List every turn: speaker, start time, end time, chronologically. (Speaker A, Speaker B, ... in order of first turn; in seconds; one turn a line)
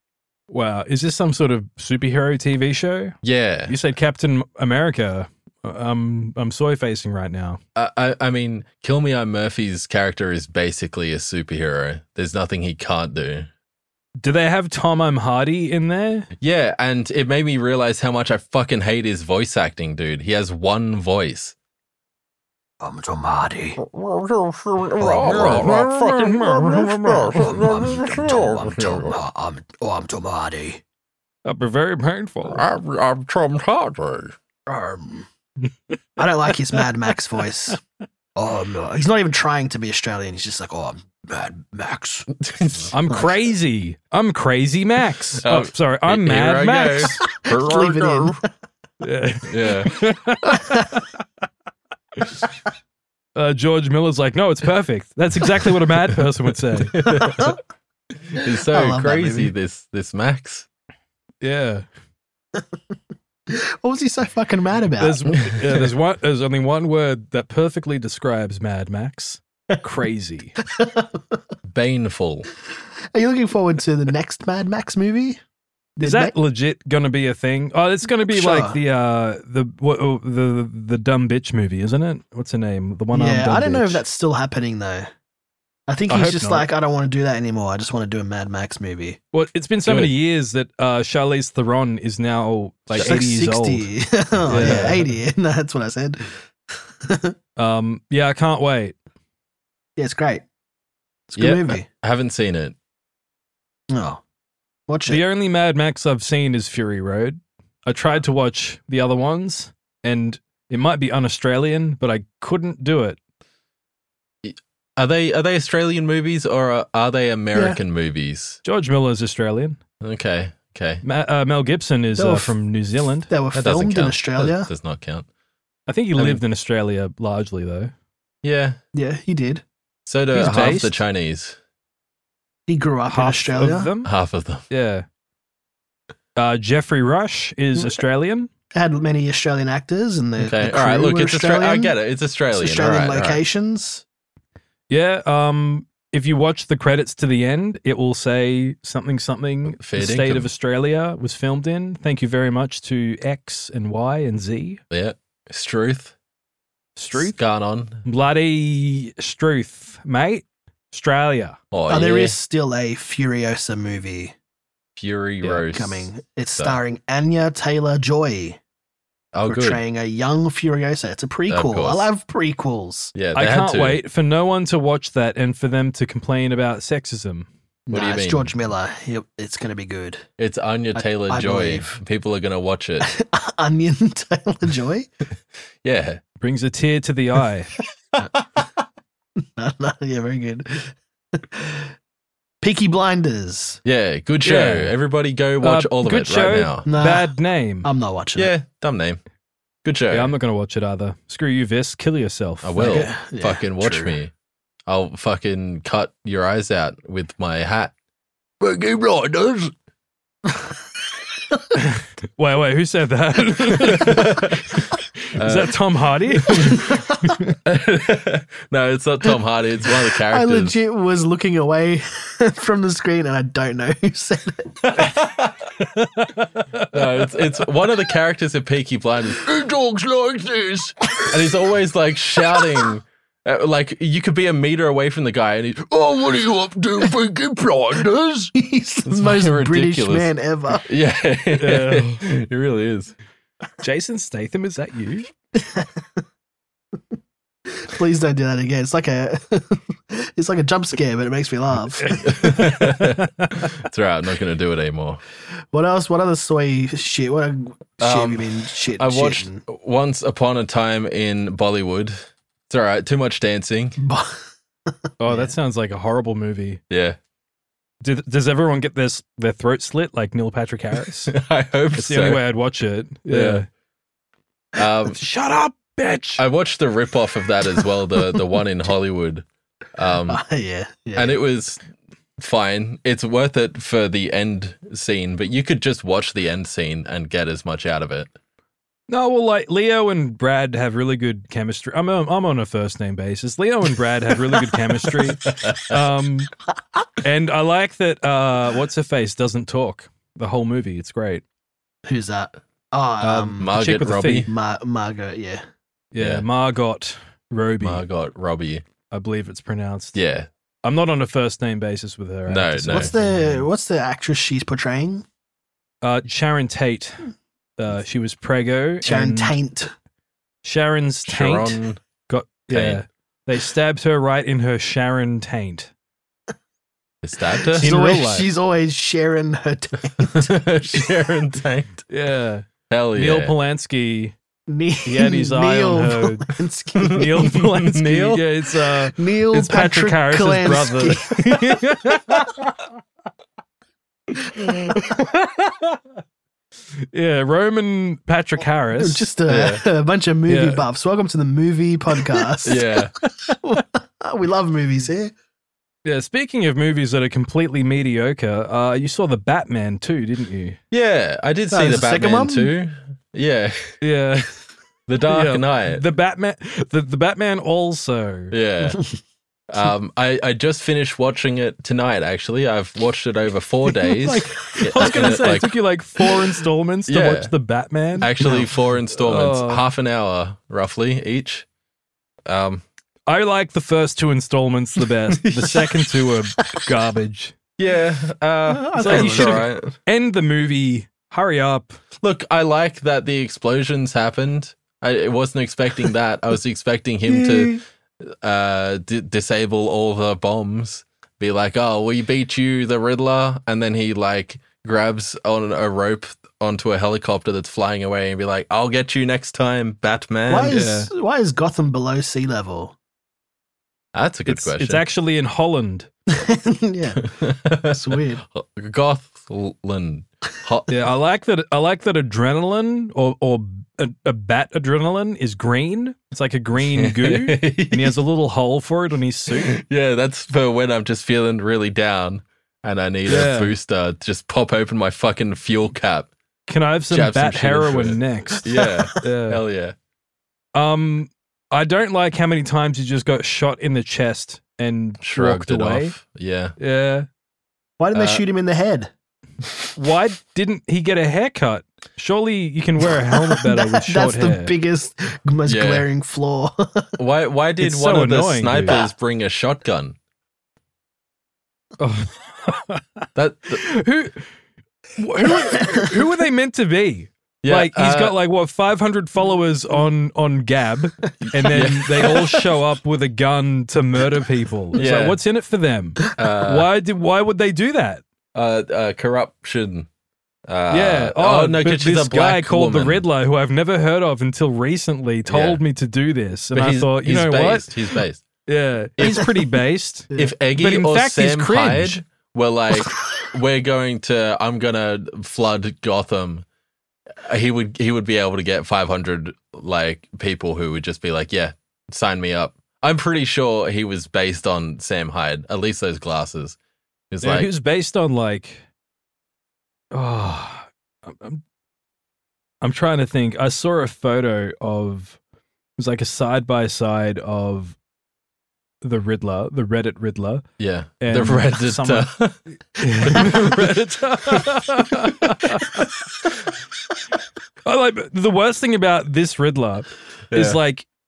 Speaker A: 0.5-7.6
Speaker B: 3.2-3.7
Speaker B: 7.7-13.5
Speaker A: 14.2-16.3
Speaker B: 16.4-21.5
Speaker C: 22.8-23.8
Speaker B: 23.9-26.4
Speaker C: 25.0-25.8
Speaker A: 25.2-27.7
Speaker C: 27.3-30.8
Speaker B: 28.2-29.1
Speaker A: 31.4-32.6
Speaker B: 32.5-34.3
Speaker C: 34.7-35.3
Speaker C: 36.2-37.8
Speaker C: 38.4-42.3
Speaker B: 42.4-42.9
Speaker A: 42.9-47.2
Speaker C: 43.1-43.3
Speaker B: 45.4-48.4
Speaker C: 47.3-48.5
Speaker A: 49.0-51.1
Speaker B: 49.5-49.9
Speaker C: 50.4-50.9
Speaker A: 53.4-57.1
Speaker B: 56.9-57.5
Speaker C: 57.0-57.5
Speaker B: 58.3-60.6
Speaker C: 58.6-59.5
Speaker A: 61.4-61.9
Speaker C: 63.5-65.3
Speaker A: 65.0-70.5
Speaker C: 70.6-71.4
Speaker B: 71.7-72.5
Speaker C: 73.1-75.4
Speaker C: 76.0-76.3
Speaker A: 76.0-84.0
Speaker C: 78.3-78.8
Speaker C: 83.1-85.1
Speaker C: 85.9-89.2
Speaker A: 86.1-86.7
Speaker A: 89.3-93.9
Speaker B: 89.8-90.1
Speaker B: 92.9-93.2
Speaker C: 93.0-97.3
Speaker A: 94.5-95.0
Speaker B: 94.6-95.0
Speaker A: 97.6-98.9
Speaker C: 100.0-100.4
Speaker C: 101.3-101.8
Speaker B: 101.3-102.8
Speaker C: 103.9-104.2
Speaker C: 104.9-105.2
Speaker A: 105.1-113.2
Speaker B: 114.4-118.6
Speaker A: 118.6-119.8
Speaker B: 120.0-121.0
Speaker A: 121.0-123.3
Speaker C: 122.2-122.5
Speaker C: 123.3-124.7
Speaker B: 123.5-125.3
Speaker A: 125.9-127.9
Speaker B: 126.2-126.4
Speaker B: 128.4-128.8
Speaker C: 128.9-129.6
Speaker B: 130.1-131.6
Speaker A: 130.3-131.0
Speaker C: 132.7-133.9
Speaker A: 133.1-134.1
Speaker B: 134.0-134.6
Speaker A: 134.7-135.1
Speaker A: 136.3-138.5
Speaker C: 138.7-141.9
Speaker B: 140.4-143.4
Speaker C: 142.6-144.0
Speaker A: 144.9-154.8
Speaker B: 149.7-150.5
Speaker B: 154.9-156.1
Speaker A: 156.9-157.4
Speaker B: 157.1-158.0
Speaker A: 158.0-161.6
Speaker B: 161.7-162.4
Speaker C: 161.9-164.3
Speaker B: 165.0-166.8
Speaker C: 165.5-168.6
Speaker B: 169.3-169.8
Speaker C: 169.5-173.1
Speaker B: 171.5-172.1
Speaker B: 173.1-174.0
Speaker A: 173.3-177.5
Speaker C: 177.9-180.2
Speaker B: 177.9-178.5
Speaker B: 180.4-183.1
Speaker C: 180.9-181.9
Speaker C: 183.0-185.1
Speaker B: 185.8-186.2
Speaker A: 186.4-187.7
Speaker B: 188.4-188.6
Speaker C: 189.4-191.9
Speaker C: 192.6-193.8
Speaker B: 193.8-196.9
Speaker A: 194.4-194.9
Speaker A: 195.6-197.9
Speaker C: 196.8-198.5
Speaker B: 198.3-199.2
Speaker B: 199.8-200.3
Speaker A: 200.1-203.1
Speaker B: 202.6-204.3
Speaker C: 202.8-204.1
Speaker B: 204.9-207.9
Speaker B: 208.6-209.7
Speaker A: 211.7-217.5
Speaker B: 213.8-215.7
Speaker B: 216.4-216.7
Speaker C: 216.5-217.4
Speaker B: 217.6-220.7
Speaker C: 220.3-225.1
Speaker B: 224.9-225.7
Speaker A: 225.9-226.9
Speaker B: 226.9-238.0
Speaker C: 238.5-240.9
Speaker B: 239.0-243.1
Speaker A: 241.6-242.2
Speaker A: 243.8-245.3
Speaker C: 245.5-246.2
Speaker C: 247.7-252.3
Speaker A: 252.0-253.7
Speaker B: 252.2-255.2
Speaker C: 255.7-259.6
Speaker B: 258.0-264.0
Speaker C: 264.0-265.5
Speaker A: 265.2-266.8
Speaker B: 266.9-267.2
Speaker A: 268.0-271.3
Speaker B: 271.3-272.4
Speaker A: 271.9-273.6
Speaker B: 273.3-273.6
Speaker B: 274.7-275.2
Speaker A: 275.1-276.4
Speaker B: 276.4-280.4
Speaker C: 280.3-281.4
Speaker B: 281.1-281.8
Speaker B: 282.4-288.3
Speaker A: 289.1-296.5
Speaker B: 295.5-296.0
Speaker A: 297.2-301.4
Speaker C: 302.1-303.8
Speaker A: 303.2-304.5
Speaker B: 303.6-304.5
Speaker C: 304.5-305.6
Speaker A: 306.1-308.0
Speaker B: 306.2-306.4
Speaker B: 307.8-308.8
Speaker A: 309.1-310.1
Speaker B: 310.1-310.5
Speaker A: 310.8-313.2
Speaker B: 312.5-313.1
Speaker C: 312.9-315.2
Speaker A: 316.0-319.5
Speaker C: 319.0-319.9
Speaker A: 320.6-325.9
Speaker B: 321.2-322.0
Speaker B: 322.7-323.0
Speaker B: 327.2-327.9
Speaker C: 327.7-331.1
Speaker A: 327.8-328.5
Speaker B: 330.2-332.0
Speaker A: 332.1-334.3
Speaker B: 332.9-333.5
Speaker C: 334.7-337.5
Speaker A: 335.1-342.6
Speaker B: 336.9-338.4
Speaker C: 339.0-341.8
Speaker C: 344.6-345.0
Speaker A: 347.1-349.3
Speaker C: 348.9-352.9
Speaker B: 349.5-349.8
Speaker A: 350.5-350.8
Speaker B: 352.6-353.1
Speaker C: 353.6-355.3
Speaker A: 356.0-360.8
Speaker B: 360.9-364.0
Speaker C: 361.7-362.7
Speaker A: 364.0-364.6
Speaker B: 365.1-366.0
Speaker A: 365.3-368.5
Speaker B: 368.5-369.0
Speaker B: 369.7-375.7
Speaker C: 374.1-375.4
Speaker A: 374.2-378.6
Speaker B: 377.1-377.5
Speaker B: 378.2-381.6
Speaker A: 379.1-379.8
Speaker B: 382.4-382.8
Speaker A: 383.3-387.6
Speaker B: 385.3-385.9
Speaker B: 387.8-389.9
Speaker C: 388.7-389.6
Speaker A: 388.9-392.0
Speaker B: 392.2-410.8
Speaker C: 397.3-397.8
Speaker C: 410.5-412.9
Speaker A: 410.7-411.1
Speaker B: 414.1-415.0
Speaker A: 414.5-416.1
Speaker C: 416.3-418.4
Speaker B: 417.2-420.9
Speaker A: 420.9-429.8
Speaker B: 426.9-428.2
Speaker B: 429.6-436.3
Speaker A: 433.3-433.7
Speaker A: 436.7-439.6
Speaker B: 437.1-439.9
Speaker A: 440.7-446.1
Speaker B: 445.2-446.8
Speaker A: 446.8-447.3
Speaker C: 448.0-449.1
Speaker B: 448.1-448.4
Speaker A: 449.9-454.7
Speaker C: 453.0-457.1
Speaker B: 455.6-456.1
Speaker B: 457.2-460.1
Speaker A: 457.8-459.0
Speaker C: 458.9-459.1
Speaker A: 462.0-463.2
Speaker B: 463.4-463.9
Speaker A: 463.8-464.4
Speaker A: 465.2-478.2
Speaker C: 465.6-466.1
Speaker B: 467.6-468.4
Speaker B: 471.4-472.6
Speaker B: 474.9-475.4
Speaker B: 476.4-476.9
Speaker B: 478.5-480.1
Speaker B: 480.7-483.2
Speaker A: 480.9-492.2
Speaker B: 485.5-485.8
Speaker B: 486.7-488.4
Speaker B: 489.2-489.5
Speaker B: 490.3-496.6
Speaker B: 497.4-506.8
Speaker B: 507.3-507.7
Speaker A: 507.4-508.8
Speaker A: 510.1-511.6
Speaker A: 512.8-515.4
Speaker A: 516.0-518.0
Speaker A: 519.0-520.6
Speaker B: 520.8-526.0
Speaker A: 521.2-522.3
Speaker A: 523.0-526.1
Speaker A: 527.8-531.0
Speaker B: 530.5-530.8